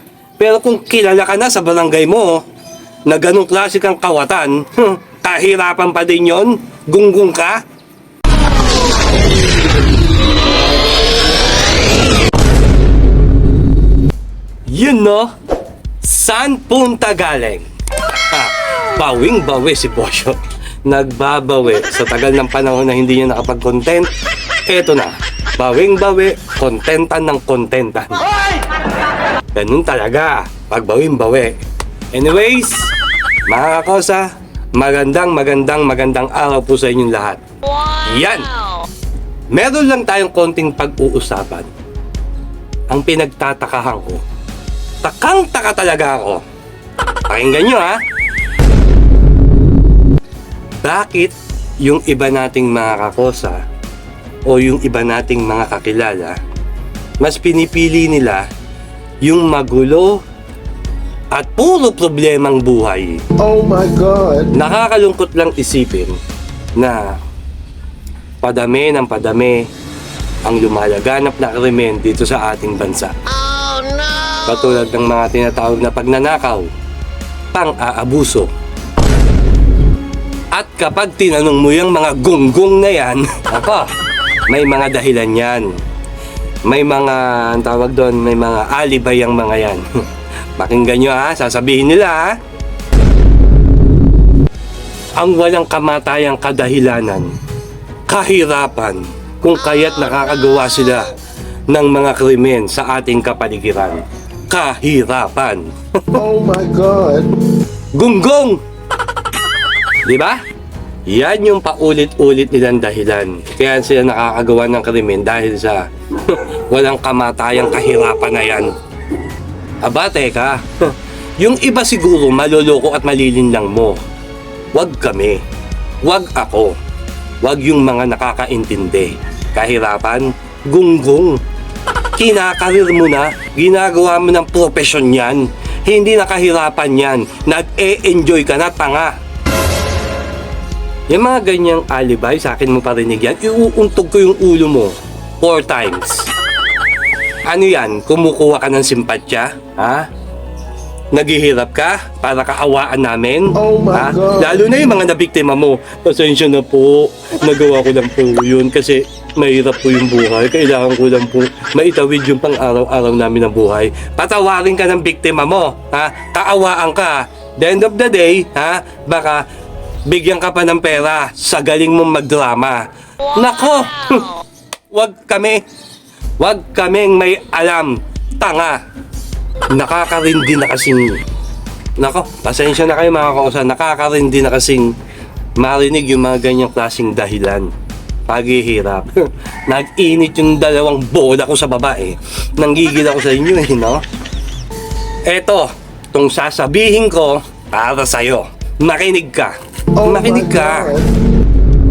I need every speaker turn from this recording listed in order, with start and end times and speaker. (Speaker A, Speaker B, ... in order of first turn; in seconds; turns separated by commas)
Speaker A: 0.4-2.4, Speaker A: 3.1-7.6, Speaker A: 14.7-15.3, Speaker A: 16.0-24.1, Speaker A: 24.7-28.3, Speaker A: 29.5-31.6, Speaker A: 32.1-32.9, Speaker A: 33.5-38.5, Speaker A: 39.5-41.7, Speaker A: 42.9-44.2, Speaker A: 45.0-46.4, Speaker A: 47.3-48.0, Speaker A: 50.8-53.6, Speaker A: 54.5-56.4, Speaker A: 57.2-58.5, Speaker A: 59.2-60.2, Speaker A: 61.3-63.2, Speaker B: 63.4-64.5, Speaker A: 64.5-66.2, Speaker A: 66.8-67.2, Speaker A: 68.4-69.7, Speaker A: 70.4-73.1, Speaker A: 74.4-76.7, Speaker A: 77.5-78.5, Speaker A: 80.5-83.9, Speaker A: 84.5-85.8, Speaker A: 86.7-89.8, Speaker A: 90.6-92.4, Speaker A: 95.2-97.3, Speaker A: 98.1-101.1, Speaker A: 101.7-106.2, Speaker B: 106.1-107.3, Speaker A: 107.9-108.6, Speaker A: 110.0-110.4, Speaker A: 111.0-118.7, Speaker A: 119.8-124.0, Speaker A: 124.7-125.4, Speaker A: 126.0-126.8, Speaker A: 127.4-131.4, Speaker A: 132.2-139.1, Speaker A: 141.1-146.3, Speaker A: 147.4-150.1, Speaker A: 151.1-169.4, Speaker B: 153.6-154.6, Speaker A: 170.1-175.6, Speaker A: 176.4-178.8, Speaker A: 179.7-181.2, Speaker A: 182.0-184.9, Speaker A: 185.6-187.7, Speaker A: 188.3-194.0, Speaker A: 195.2-200.9, Speaker B: 200.0-201.1